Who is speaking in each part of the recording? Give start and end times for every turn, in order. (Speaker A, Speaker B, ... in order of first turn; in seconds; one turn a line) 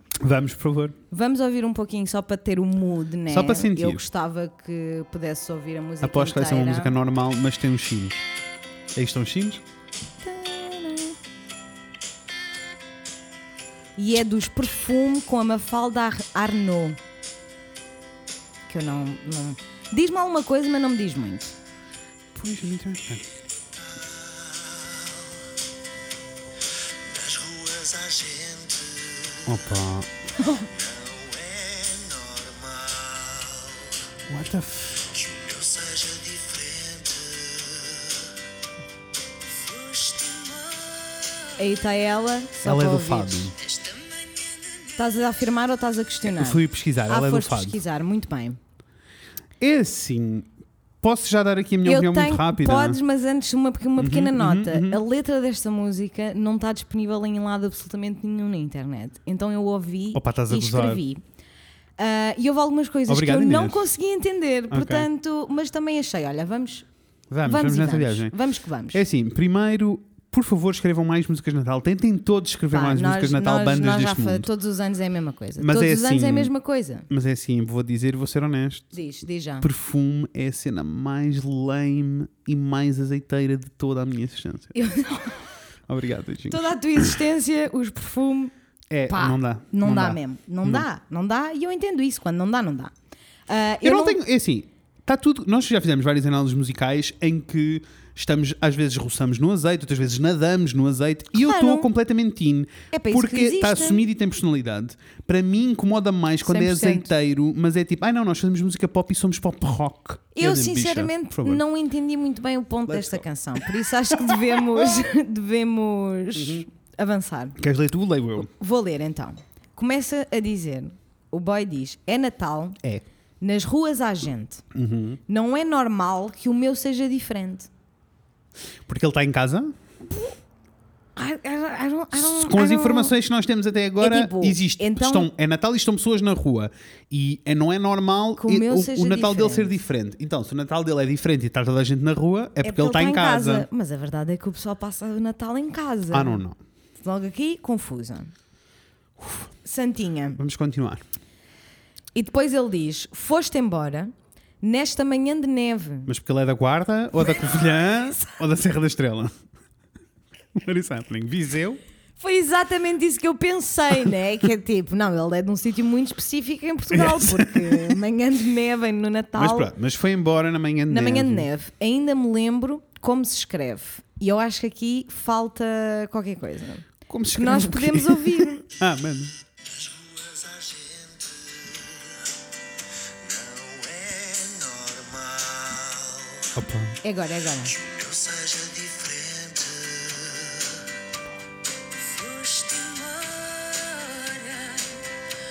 Speaker A: 0.2-1.0
Speaker B: 1.1-6.9
Speaker A: 3.3-4.0
Speaker A: 6.0-8.2
Speaker A: 8.9-9.6
Speaker B: 10.2-11.2
Speaker B: 14.0-17.0
Speaker B: 18.7-21.5
Speaker A: 22.3-23.3
Speaker C: 23.8-25.4
Speaker C: 27.1-29.6
Speaker A: 29.4-30.1
Speaker B: 30.4-30.7
Speaker C: 30.6-34.1
Speaker A: 34.3-35.1
Speaker C: 35.1-38.3
Speaker C: 39.5-41.8
Speaker B: 41.6-43.5
Speaker A: 42.6-43.5
Speaker C: 43.6-45.0
Speaker B: 45.0-48.6
Speaker A: 46.2-47.8
Speaker A: 49.6-50.5
Speaker A: 51.0-53.0
Speaker B: 51.8-61.2
Speaker A: 54.0-55.0
Speaker A: 60.1-61.0
Speaker B: 62.0-66.8
Speaker A: 63.1-63.8
Speaker A: 64.7-65.1
Speaker A: 67.3-68.3
Speaker B: 67.4-69.0
Speaker A: 68.9-74.5
Speaker B: 72.7-77.1
Speaker A: 75.6-76.5
Speaker A: 77.1-78.9
Speaker B: 78.9-79.7
Speaker A: 79.6-84.7
Speaker B: 84.7-85.5
Speaker A: 85.9-87.2
Speaker B: 86.5-88.5
Speaker A: 88.9-90.8
Speaker B: 89.1-92.9
Speaker B: 93.5-94.2
Speaker A: 93.8-111.6
Speaker B: 101.3-101.9
Speaker B: 102.9-104.0
Speaker B: 106.4-107.1
Speaker B: 110.3-117.6
Speaker A: 112.9-113.2
Speaker A: 114.3-115.0
Speaker A: 116.3-116.7
Speaker A: 117.6-118.5
Speaker B: 118.4-122.8
Speaker B: 123.4-124.6
Speaker A: 124.7-125.2
Speaker B: 125.3-127.7
Speaker A: 128.8-129.7
Speaker B: 131.2-133.1
Speaker A: 132.1-143.7
Speaker B: 134.0-135.3
Speaker B: 138.4-139.8
Speaker B: 142.6-146.4
Speaker A: 146.1-146.6
Speaker B: 147.0-148.3
Speaker A: 149.2-149.4
Speaker B: 149.6-150.4
Speaker A: 150.4-151.0
Speaker B: 152.1-156.1
Speaker A: 156.1-159.3
Speaker A: 160.5-161.8
Speaker B: 162.2-169.7
Speaker A: 166.9-168.0
Speaker A: 169.3-171.5
Speaker B: 170.9-178.6
Speaker A: 177.1-179.3
Speaker C: 179.6-182.3
Speaker C: 183.2-186.5
Speaker A: 186.5-187.0
Speaker B: 187.0-187.7
Speaker C: 187.7-190.9
Speaker C: 191.9-195.0